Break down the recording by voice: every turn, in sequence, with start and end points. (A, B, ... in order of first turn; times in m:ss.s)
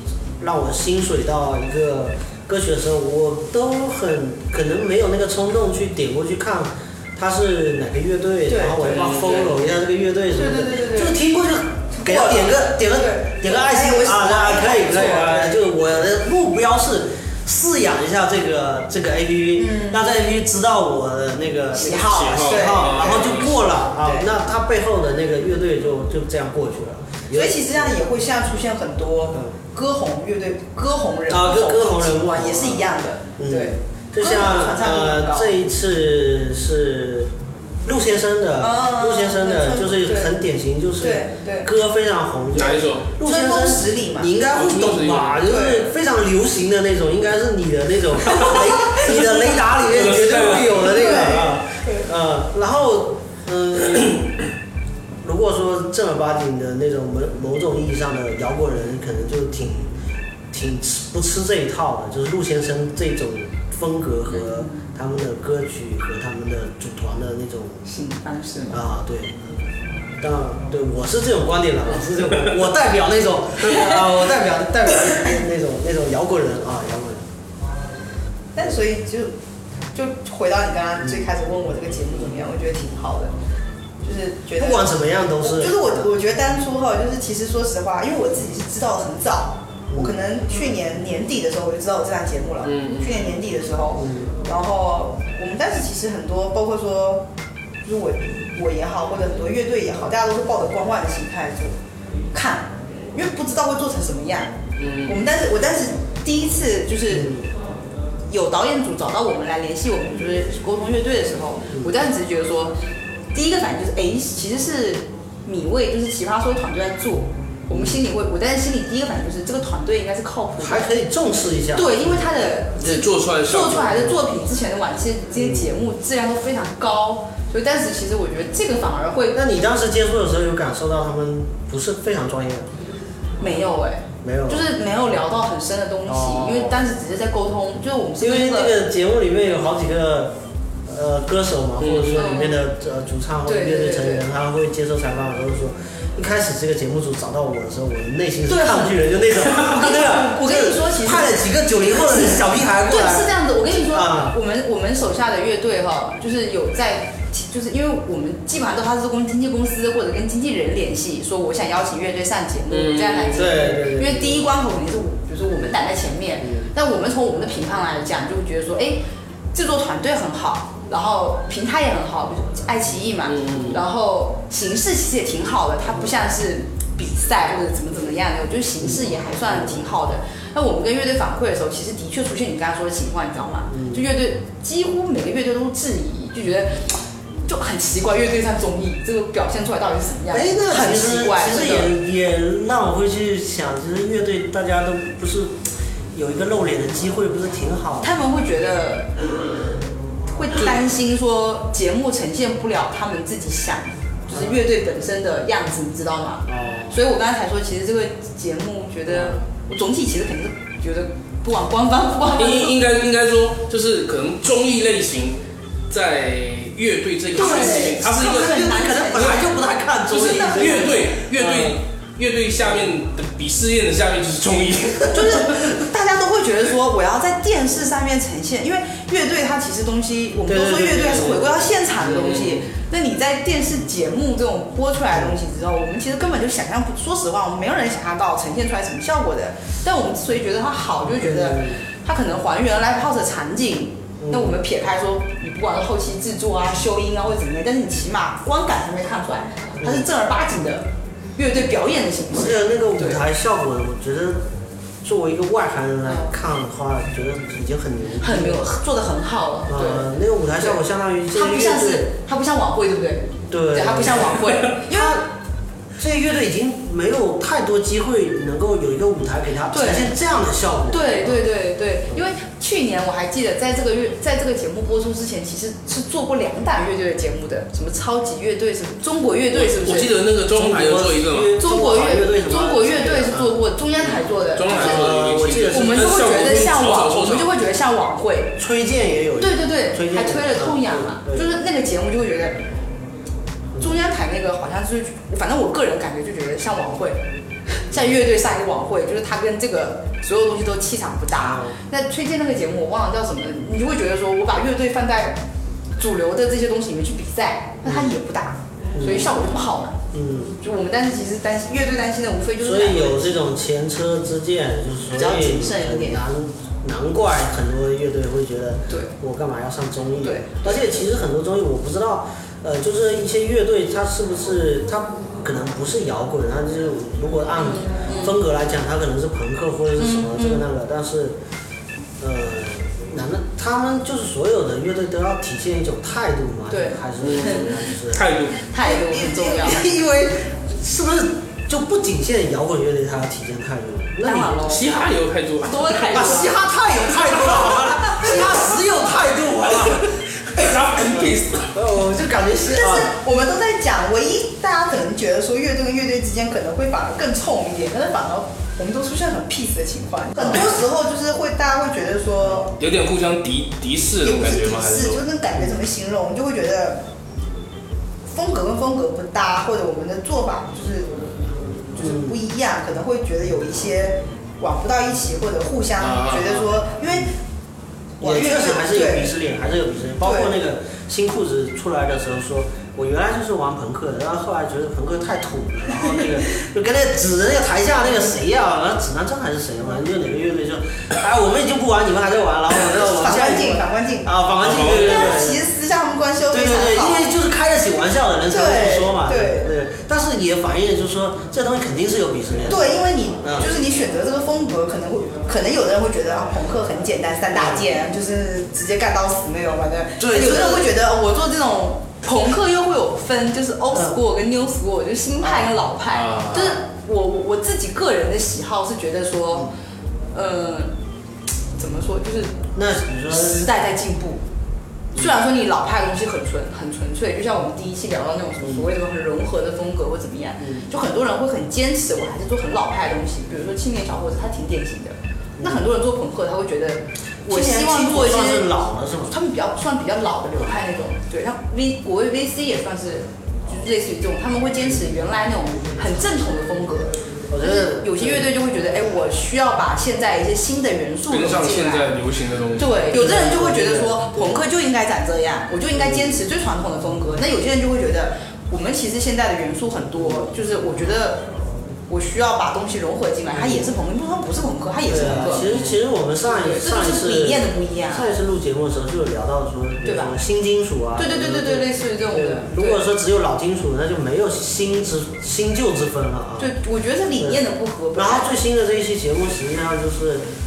0:00.4-0:28.0 A
0:08.5-0:08.8 B
0:08.8-0:09.5 C
0:10.3-0:11.2 B
0:11.9-0:15.6 B
0:19.6-0:20.1 B
0:21.7-0:24.3 B
0:21.8-0:23.6 C
0:27.3-0:35.6 B
0:31.3-0:37.3 A
0:37.8-0:54.4 A
0:38.6-0:40.4 B
0:41.0-0:41.7 B
0:42.5-0:43.1 C
0:43.2-0:44.3 B
0:44.5-0:45.4 C
0:45.4-0:45.9 B
0:48.3-0:49.2 B
0:49.8-0:51.2 C
0:50.8-0:52.0 B
0:55.2-0:59.9 A
1:00.5-1:07.8 A
1:04.3-1:04.8 B
1:07.8-1:08.8 B
1:08.7-1:09.4 A
1:10.2-1:17.2 A
1:13.6-1:14.0 B
1:18.5-1:19.3 B
1:19.9-1:23.3 B
1:24.0-1:37.2 B
1:24.6-1:26.1 A
1:29.9-1:30.1 A
1:32.6-1:33.3 C
1:33.9-1:34.3 A
1:37.8-1:41.8 B
1:42.3-1:47.4 B
1:44.8-1:45.2 C
1:47.1-1:47.5 A
1:48.3-1:52.7 B
1:53.3-2:00.9 B
1:57.7-1:58.0 A
2:00.6-2:02.3 A
2:01.7-2:09.4 B
2:02.8-2:03.9 C
2:03.6-2:04.2 A
2:05.4-2:05.7 A
2:09.3-2:12.7 A
2:13.4-2:18.8 B
2:14.2-2:14.6 A
2:16.0-2:16.8 A
2:18.2-2:34.4 A
2:21.8-2:22.2 C
2:22.2-2:22.6 B
2:23.4-2:24.2 B
2:28.4-2:49.0 B
2:42.7-2:43.5 C
2:43.3-2:44.5 A
2:46.4-2:46.7 A
2:49.5-3:11.9 B
2:53.2-2:53.8 C
2:53.5-2:53.8 A
2:59.5-2:59.8 A
3:03.7-3:04.0 A
3:10.3-3:15.6 A
3:16.1-3:18.1 A
3:18.0-3:19.2 B
3:20.3-3:32.8 B
3:24.3-3:24.6 A
3:26.4-3:27.0 A
3:29.1-3:29.4 A
3:32.3-3:35.4 C
3:35.9-3:39.4 C
3:37.4-3:39.6 B
3:37.4-3:41.8 A
3:40.1-3:45.6 C
3:40.1-3:41.2 B
3:45.1-4:13.2 B
3:50.4-3:51.7 A
3:52.0-3:52.6 C
3:55.1-3:55.4 A
4:01.0-4:01.8 A
4:04.2-4:04.6 A
4:09.8-4:10.1 A
4:12.3-4:14.4 A
4:15.0-4:18.7 A
4:16.0-4:16.3 B
4:18.2-4:20.1 B
4:19.7-4:22.1 A
4:21.3-4:25.2 B
4:23.5-4:25.2 A
4:26.0-4:31.4 A
4:29.7-4:30.1 B
4:30.9-4:40.1 B
4:39.5-4:41.6 C
4:40.5-4:43.6 A
4:41.6-4:45.1 B
4:44.5-4:47.5 C
4:44.7-4:46.4 A
4:45.7-4:48.6 B
4:48.6-4:51.6 A
4:49.4-4:52.6 B
4:53.7-4:54.0 A
4:53.8-5:05.4 B
5:01.3-5:01.8 A
5:06.0-5:10.0 B
5:07.8-5:08.1 A
5:08.9-5:09.4 A
5:10.1-5:10.5 A
5:10.6-5:13.4 B
5:12.6-5:31.4 A
5:15.1-5:16.2 B
5:20.2-5:20.8 B
5:27.6-5:28.4 B
5:30.0-5:30.6 B
5:32.2-5:44.6 A
5:36.7-5:37.7 B
5:37.2-5:38.6 C
5:38.7-5:39.8 B
5:44.2-5:45.0 B
5:44.6-5:46.3 C
5:45.6-5:46.5 B
5:46.1-5:53.1 A
5:48.0-5:48.5 B
5:50.5-5:51.7 C
5:52.6-6:02.7 B
6:00.4-6:00.7 A
6:02.8-6:05.2 C
6:04.2-6:07.0 B
6:08.3-6:11.1 B
6:11.9-6:17.4 B
6:12.0-6:12.4 A
6:16.0-6:16.7 C
6:18.2-6:35.6 A
6:18.2-6:19.3 B
6:20.2-6:20.6 B
6:32.9-6:37.3 B
6:34.6-6:35.1 C
6:36.5-6:43.8 A
6:38.5-6:39.7 B
6:42.7-6:59.7 B
6:47.5-6:47.9 A
6:50.2-6:50.9 A
6:55.4-6:55.7 A
6:56.1-6:56.7 C
7:00.3-7:00.9 B
7:01.8-7:02.6 B
7:02.7-7:03.7 A
7:03.3-7:04.4 B
7:05.1-7:18.7 B
7:08.6-7:08.9 A
7:10.6-7:10.8 A
7:15.6-7:15.9 A
7:17.5-7:19.4 A
7:19.3-7:32.1 B
7:27.5-7:28.5 A
7:31.3-7:33.0 C
7:32.8-7:41.5 B
7:33.1-7:34.6 A
7:35.9-7:36.4 A
7:42.1-7:45.7 B
7:43.5-7:43.9 A
7:45.1-7:56.7 A
7:46.4-7:48.3 B
7:50.0-7:50.3 B
7:51.2-7:53.0 B
7:56.6-7:58.5 B
7:58.1-8:00.4 A